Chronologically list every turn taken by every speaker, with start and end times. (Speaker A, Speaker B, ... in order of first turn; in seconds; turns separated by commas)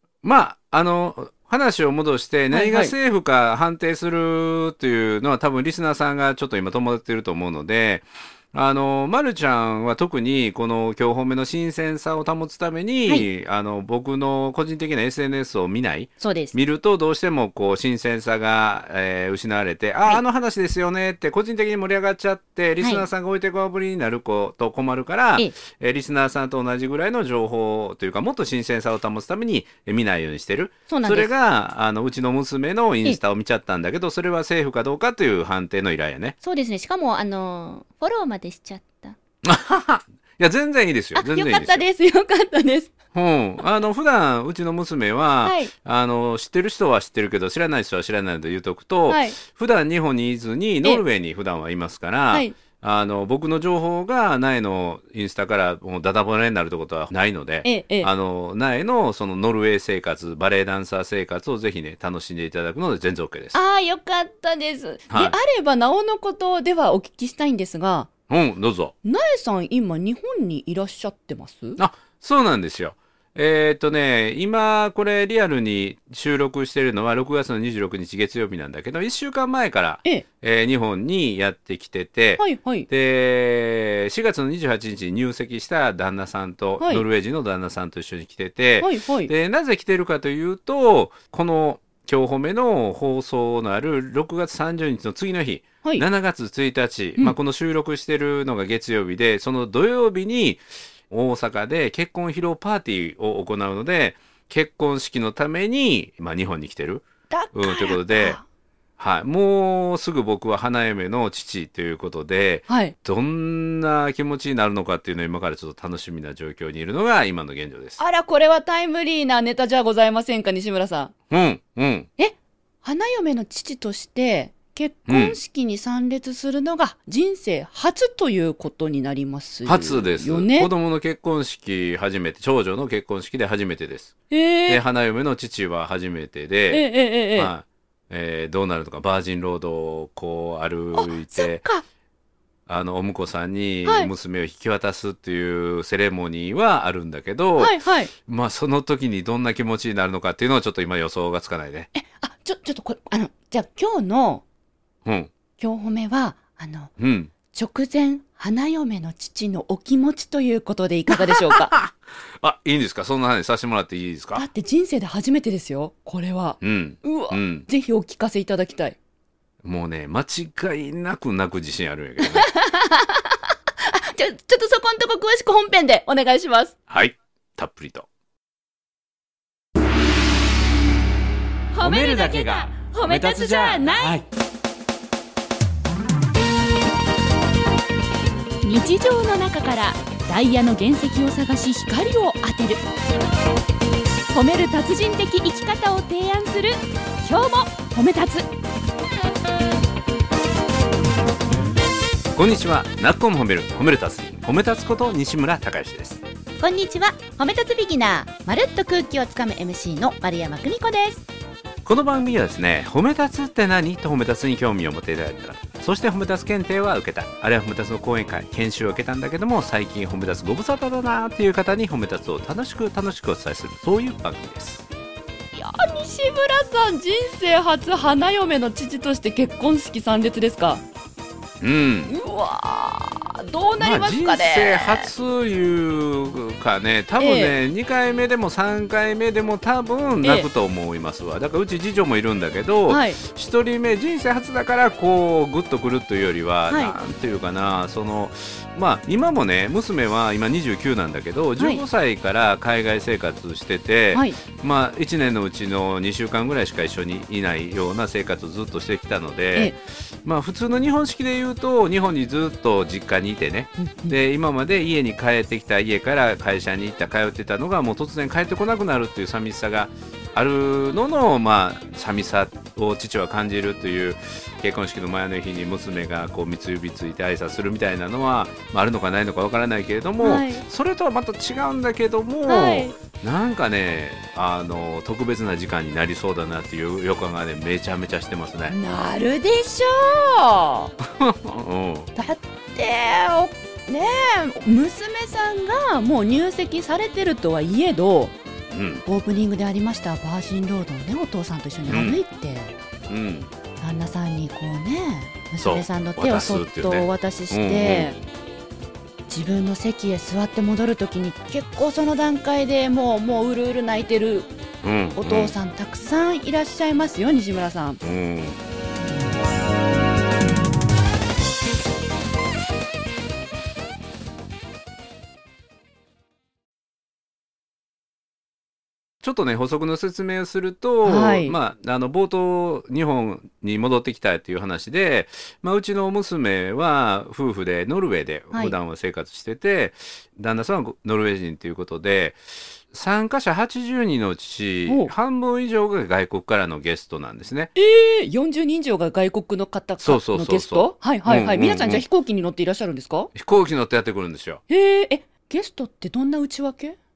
Speaker A: 0.2-36.3, Speaker B: 2.5-2.9, Speaker B: 16.2-16.6, Speaker B: 22.8-23.1, Speaker B: 30.9-31.3, Speaker B: 36.4-39.2, Speaker A: 39.4-41.8, Speaker B: 41.1-42.9, Speaker A: 43.1-63.5, Speaker B: 45.4-45.7, Speaker B: 49.1-49.4, Speaker B: 57.6-58.1, Speaker B: 63.5-68.1, Speaker A: 65.1-65.4, Speaker A: 68.3-68.9, Speaker B: 69.0-71.8, Speaker A: 71.8-108.4, Speaker B: 82.4-82.9, Speaker B: 86.8-87.0, Speaker B: 88.8-89.3, Speaker B: 107.3-108.4, Speaker A: 109.0-118.0, Speaker B: 112.7-112.9, Speaker B: 118.0-121.1, Speaker A: 121.3-122.1, Speaker B: 122.2-130.7, Speaker A: 125.1-125.4, Speaker A: 129.7-134.1, Speaker B: 134.3-134.8, Speaker A: 134.7-141.6, Speaker B: 136.7-137.5, Speaker B: 140.9-141.8, Speaker A: 142.7-151.9, Speaker B: 143.8-144.1, Speaker B: 147.6-148.1, Speaker B: 151.9-154.4, Speaker A: 155.0-155.3, Speaker B: 155.6-156.9, Speaker A: 157.0-157.3, Speaker B: 157.5-161.7, Speaker A: 161.1-164.4, Speaker B: 164.3-169.0, Speaker A: 166.6-167.7, Speaker A: 169.6-172.4, Speaker B: 172.2-176.7, Speaker A: 176.9-178.1, Speaker B: 181.7-184.2, Speaker A: 181.8-184.2, Speaker B: 188.6-192.8, Speaker B: 194.3-198.5, Speaker A: 202.3-206.2, Speaker B: 206.6-211.2, Speaker A: 211.8-224.8, Speaker B: 225.5-230.8, Speaker A: 231.6-232.1, Speaker B: 232.1-235.1, Speaker A: 233.8-288.8, Speaker B: 237.2-237.5, Speaker B: 240.2-240.5, Speaker B: 242.9-243.2, Speaker B: 246.7-246.9, Speaker B: 251.6-251.8, Speaker B: 254.1-254.4, Speaker B: 263.8-264.1, Speaker B: 280.2-280.6, Speaker B: 282.4-283.0, Speaker B: 288.7-290.9, Speaker A: 291.0-292.1, Speaker B: 292.1-298.4, Speaker A: 298.7-299.0, Speaker B: 299.0-302.7, Speaker A: 301.9-302.2, Speaker A: 303.1-303.5, Speaker B: 303.8-308.2, Speaker A: 305.6-308.1, Speaker B: 309.3-314.5, Speaker A: 314.8-315.5, Speaker B: 315.1-318.0, Speaker A: 318.0-318.6, Speaker A: 329.2-347.7, Speaker B: 331.0-331.6, Speaker B: 344.9-345.1, Speaker B: 347.7-353.3, Speaker A: 350.0-352.0, Speaker A: 353.3-354.6, Speaker B: 354.7-357.0